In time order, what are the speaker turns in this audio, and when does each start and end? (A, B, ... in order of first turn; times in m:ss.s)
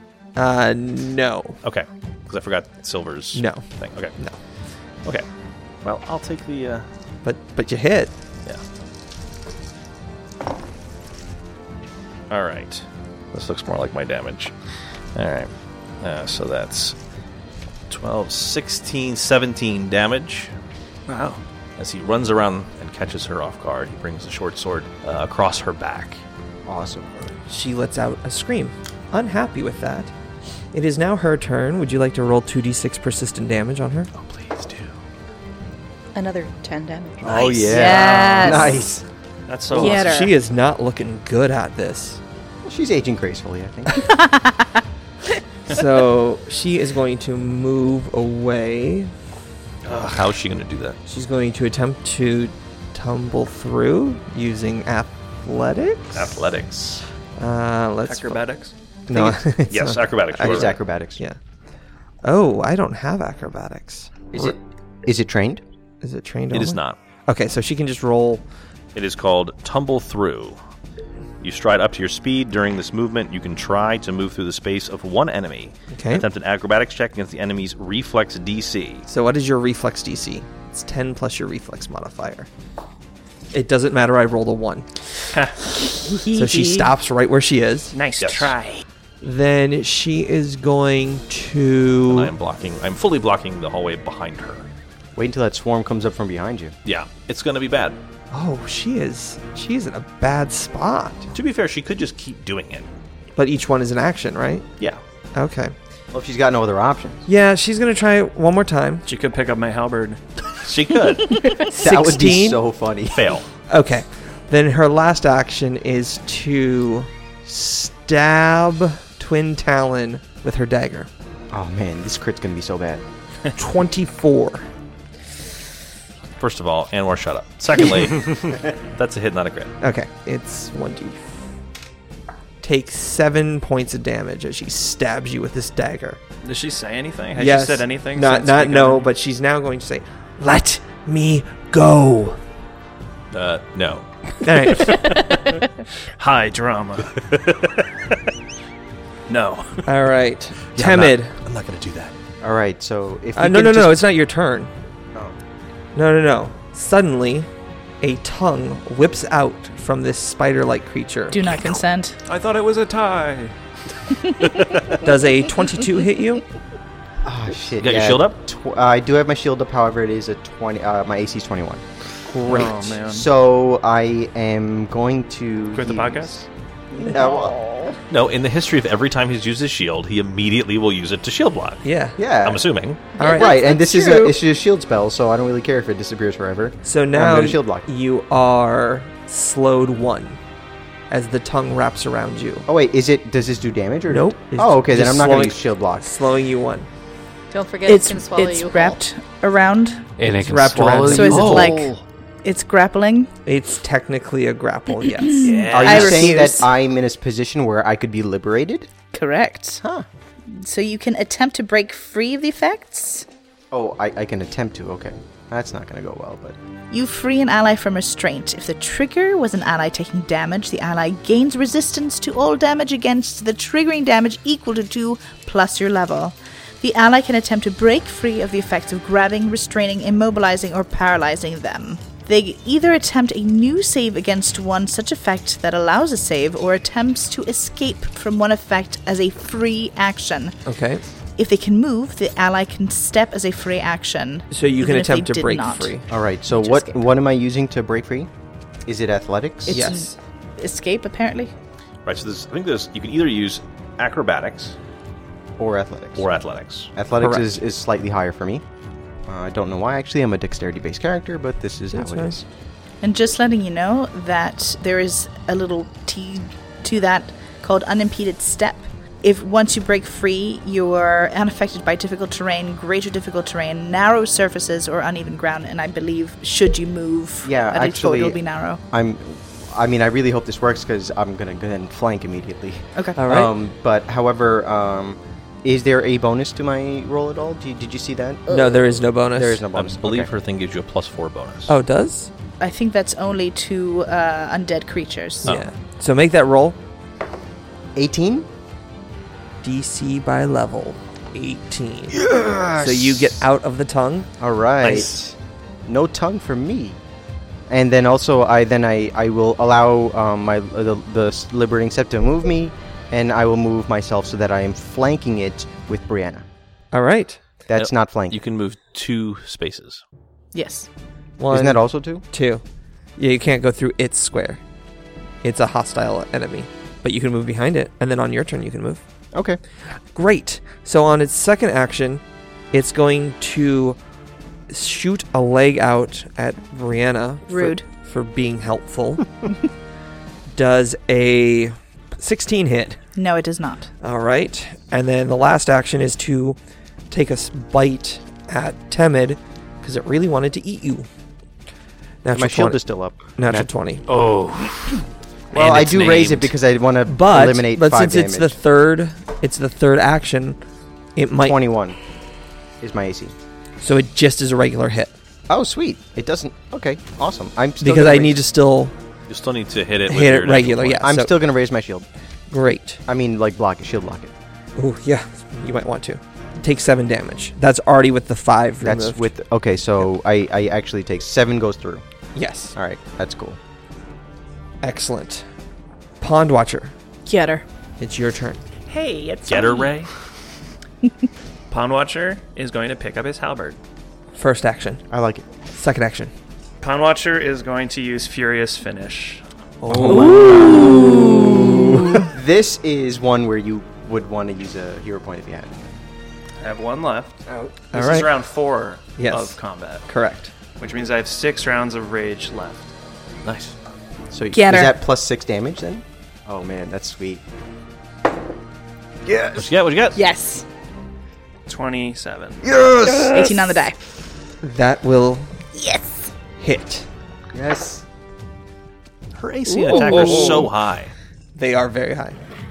0:00.4-0:01.6 A
0:01.6-0:04.1 B
0:03.3-0:03.6 A
0:05.8-0:06.8 B
0:07.2-0:08.1 A
0:12.3-0:14.5 B
0:15.1-0:17.0 B
0:17.9-0:20.5 B
0:21.1-0:21.4 C
0:21.8-0:26.2 B
0:26.6-0:27.1 D
0:27.2-0:30.1 A
0:30.7-0:34.1 A
0:34.1-0:34.9 B
0:36.1-0:38.8 E
0:37.2-0:39.0 D
0:37.6-0:38.8 F
0:39.5-0:40.1 C
0:39.7-0:40.3 F
0:39.7-0:42.2 A
0:42.6-0:44.1 D
0:44.0-0:44.7 F
0:45.7-0:49.1 A
0:49.8-0:51.0 B
0:51.1-0:56.4 A
0:56.1-0:57.0 B
0:57.4-0:58.4 A
0:58.0-0:58.7 C
0:59.1-1:01.4 A
0:59.6-1:00.8 B
1:00.4-1:01.2 D
1:02.2-1:04.5 A
1:04.3-1:05.6 D
1:06.0-1:08.4 A
1:06.5-1:07.0 B
1:08.9-1:10.6 B
1:11.4-1:19.0 B
1:15.9-1:16.3 A
1:19.1-1:22.5 A
1:23.5-1:24.9 A
1:26.3-1:26.8 F
1:26.3-1:27.9 A
1:27.9-1:28.8 C
1:28.2-1:28.5 B
1:29.2-1:32.3 A
1:32.1-1:34.7 B
1:35.2-1:36.7 D
1:36.8-1:38.0 B
1:38.3-1:41.3 A
1:41.3-1:42.9 B
1:43.4-1:44.6 A
1:45.3-1:45.7 A
1:46.1-1:47.2 D
1:47.3-1:49.0 A
1:49.0-1:50.2 C
1:50.6-1:51.5 B
1:51.7-1:52.6 A
1:51.8-1:53.4 D
1:53.1-1:53.4 B
1:53.7-2:01.1 A
2:01.5-2:03.0 D
2:03.6-2:04.7 A
2:06.4-2:09.7 B
2:09.8-2:11.4 A
2:12.6-2:16.2 A
2:16.4-2:19.1 C
2:17.3-2:22.4 A
2:23.3-2:24.1 B
2:24.4-2:25.2 A
2:24.8-2:25.4 C
2:26.2-2:27.1 C
2:27.2-2:27.7 B
2:29.3-2:29.8 C
2:29.8-2:31.3 A
2:30.7-2:32.1 B
2:32.4-2:34.1 D
2:33.3-2:34.7 A
2:35.9-2:37.5 A
2:38.0-2:41.5 A
2:41.3-2:42.2 F
2:42.2-2:43.5 C
2:45.0-2:46.4 A
2:47.2-2:51.8 D
2:47.8-2:48.4 B
2:52.3-2:52.8 A
2:52.5-2:53.3 C
2:52.5-2:56.4 D
2:55.7-2:56.4 C
2:57.0-2:58.0 F
2:57.1-2:57.5 D
2:58.1-3:01.8 B
3:01.8-3:02.2 A
3:02.2-3:02.6 D
3:02.4-3:03.0 B
3:03.2-3:04.4 F
3:03.2-3:07.9 D
3:06.8-3:10.4 A
3:11.1-3:12.7 A
3:12.7-3:16.1 D
3:14.1-3:16.9 A
3:17.5-3:19.0 E
3:17.8-3:20.0 F
3:20.2-3:21.8 G
3:20.2-3:21.8 A
3:21.0-3:23.3 F
3:21.2-3:21.8 B
3:23.4-3:26.3 A
3:25.2-3:26.7 F
3:25.4-3:26.0 B
3:25.6-3:26.0 C
3:25.7-3:28.9 D
3:29.1-3:29.8 F
3:30.5-3:33.2 F
3:33.7-3:36.6 D
3:36.9-4:00.6 F
4:00.6-4:01.0 A
4:01.4-4:07.0 F
4:04.5-4:06.1 A
4:06.1-4:08.3 D
4:08.8-4:09.9 D
4:09.6-4:11.5 F
4:09.7-4:10.1 A
4:12.0-4:14.8 B
4:15.6-4:16.3 D
4:16.2-4:16.9 B
4:16.9-4:18.6 D
4:17.2-4:17.6 A
4:19.3-4:22.4 D
4:21.9-4:22.4 A
4:23.0-4:38.8 F
4:37.4-4:50.3 D
4:43.2-4:43.5 A
4:48.5-4:49.6 A
4:49.7-4:51.7 B
4:51.7-4:52.3 A
4:52.6-4:55.5 F
4:55.4-4:56.8 A
4:57.9-4:58.5 D
4:59.6-5:02.2 A
5:02.5-5:03.2 B
5:02.8-5:04.3 A
5:04.4-5:05.1 D
5:04.8-5:05.3 B
5:05.8-5:07.0 D
5:07.7-5:16.4 D
5:16.9-5:17.4 A
5:17.7-5:18.4 D
5:17.7-5:20.0 B
5:20.5-5:20.9 F
5:21.4-5:22.6 A
5:21.5-5:22.2 D
5:23.2-5:24.6 A
5:25.4-5:29.0 A
5:29.3-5:29.6 D
5:30.1-5:34.0 A
5:34.7-5:39.5 A
5:37.5-5:37.8 F
5:40.5-5:43.0 A
5:43.2-5:43.9 F
5:44.0-5:46.6 A
5:47.1-5:51.1 A
5:52.2-5:52.8 A
5:52.3-5:53.2 D
5:53.4-5:54.0 A
5:53.5-5:55.0 G
5:55.5-5:58.5 D
5:55.5-5:56.5 G
5:55.7-5:56.4 B
5:57.1-6:00.6 A
6:01.2-6:01.6 A
6:01.4-6:02.0 D
6:02.8-6:03.3 D
6:03.8-6:05.1 A
6:05.5-6:08.4 D
6:07.8-6:08.9 A
6:09.3-6:11.0 B
6:10.1-6:11.4 A
6:11.0-6:12.0 D
6:12.5-6:13.0 A
6:13.1-6:14.3 D
6:14.8-6:19.3 A
6:18.8-6:22.0 D
6:22.3-6:22.8 A
6:22.7-6:23.6 D
6:24.8-6:25.4 A
6:26.2-6:26.9 A
6:27.2-6:27.6 F
6:28.0-6:28.6 A
6:28.9-6:29.7 F
6:29.5-6:30.0 B
6:29.6-6:30.1 C
6:31.7-6:33.8 C
6:34.3-6:35.0 A
6:35.1-6:35.4 D
6:35.7-6:36.3 A
6:36.8-6:39.4 C
6:39.8-6:42.2 A
6:40.0-6:41.2 D
6:40.7-6:41.6 F
6:42.1-6:45.8 D
6:46.6-6:47.4 C
6:47.5-6:47.7 D
6:47.9-6:48.3 A
6:47.9-6:50.0 C
6:49.2-6:50.5 A
6:50.8-6:52.9 C
6:53.4-6:53.7 B
6:54.3-6:57.4 D
6:54.5-6:54.9 F
6:59.5-7:00.2 B
7:00.1-7:00.6 F
7:01.6-7:02.6 C
7:02.9-7:03.1 A
7:03.2-7:04.0 F
7:04.6-7:05.5 A
7:05.7-7:06.3 F
7:06.6-7:07.1 A
7:07.5-7:08.0 D
7:09.3-7:11.1 B
7:09.7-7:10.7 F
7:09.9-7:10.7 A
7:11.5-7:12.4 A